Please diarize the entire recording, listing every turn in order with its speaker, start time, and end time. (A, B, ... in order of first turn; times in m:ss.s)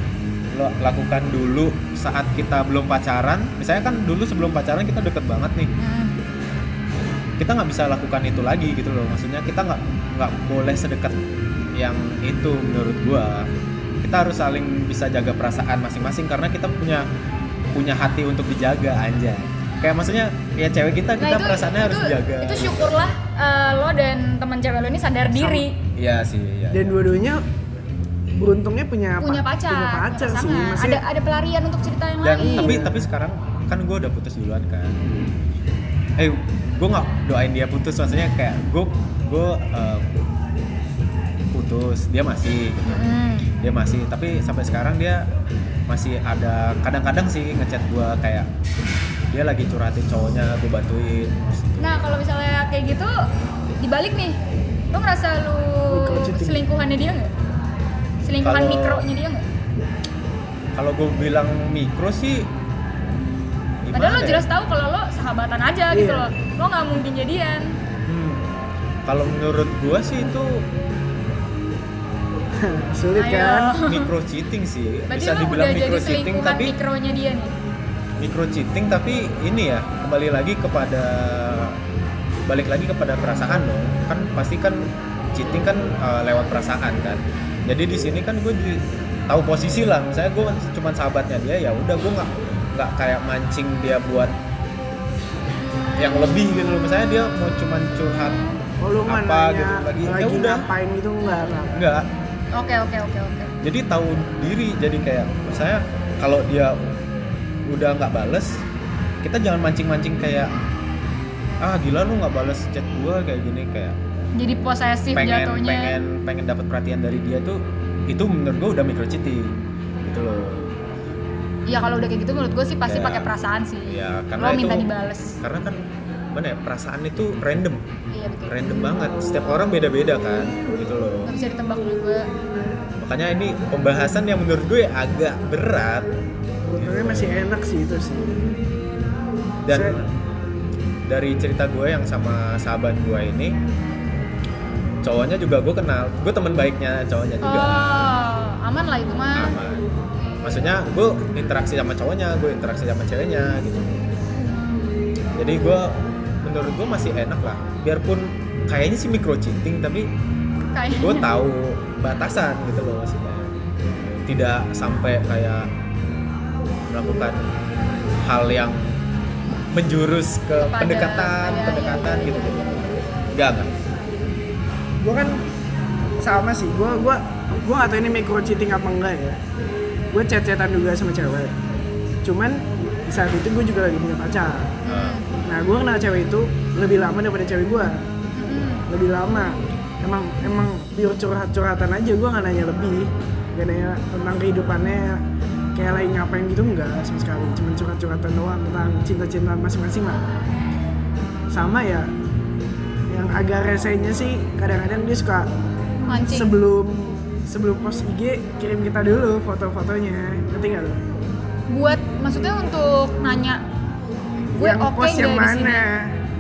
0:00.5-0:05.7 A
0:05.8-0:06.2 B
0:07.4-0:11.2 A
0:11.7-0:13.5 A
0:14.0-0:17.1 A
0:17.7-0:23.0 A
0:21.2-0:25.8 B
0:25.3-0:25.7 C
0:26.0-0:27.0 A
0:26.7-0:27.4 C
0:28.4-0:31.0 C
0:29.2-0:32.8 B
0:32.2-0:35.0 A
0:32.4-0:33.0 C
0:36.2-0:40.2 A
0:41.5-0:45.3 A
0:42.9-0:43.5 B
0:45.9-0:48.5 A
0:49.3-0:52.0 A
0:51.8-0:53.3 B
0:53.8-0:54.4 B
0:54.9-0:57.3 B
0:55.9-0:56.6 C
0:58.2-0:59.5 B
0:58.4-0:59.1 A
1:00.8-1:02.5 A
1:03.8-1:04.5 A
1:03.9-1:07.8 B
1:05.9-1:06.3 C
1:08.1-1:08.5 A
1:09.1-1:10.7 A
1:12.6-1:13.8 C
1:13.2-1:14.1 B
1:13.8-1:16.8 A
1:15.1-1:17.5 B
1:18.2-1:21.8 A
1:22.5-1:34.3 A
1:36.0-1:38.4 A
1:38.3-1:38.6 B
1:38.8-1:41.8 C
1:39.0-1:40.7 A
1:41.7-1:42.1 A
1:42.6-1:43.5 B
1:43.6-1:47.0 A
1:47.7-1:48.6 A
1:49.2-1:50.6 A
1:51.6-1:54.0 A
1:54.4-1:56.0 B
1:55.2-2:00.8 A
2:01.7-2:05.4 B
2:02.8-2:03.3 A
2:03.9-2:04.9 A
2:05.4-2:07.8 A
2:08.1-2:08.5 B
2:08.5-2:11.3 A
2:11.2-2:12.3 B
2:13.0-2:16.1 A
2:16.6-2:18.6 C
2:16.8-2:17.5 A
2:19.6-2:20.0 A
2:19.7-2:20.0 C
2:21.1-2:23.6 A
2:25.0-2:28.1 A
2:27.4-2:29.6 B
2:29.3-2:29.9 A
2:30.4-2:34.0 A
2:35.4-2:40.1 A
2:40.7-2:41.3 B
2:40.9-2:45.7 A
2:46.9-2:47.4 A
2:48.2-2:49.0 A
2:49.7-2:53.7 A
2:50.6-2:53.0 B
2:55.0-2:55.4 C
2:56.2-2:59.4 C
3:00.1-3:01.6 C
3:02.2-3:04.8 C
3:04.8-3:05.4 B
3:04.9-3:05.2 A
3:05.5-3:08.0 C
3:08.4-3:08.9 B
3:08.9-3:15.2 C
3:15.8-3:20.2 C
3:21.5-3:22.1 C
3:23.1-3:25.5 C
3:26.1-3:26.6 B
3:26.3-3:31.0 C
3:31.7-3:33.6 B
3:34.5-3:36.2 C
3:34.6-3:35.8 B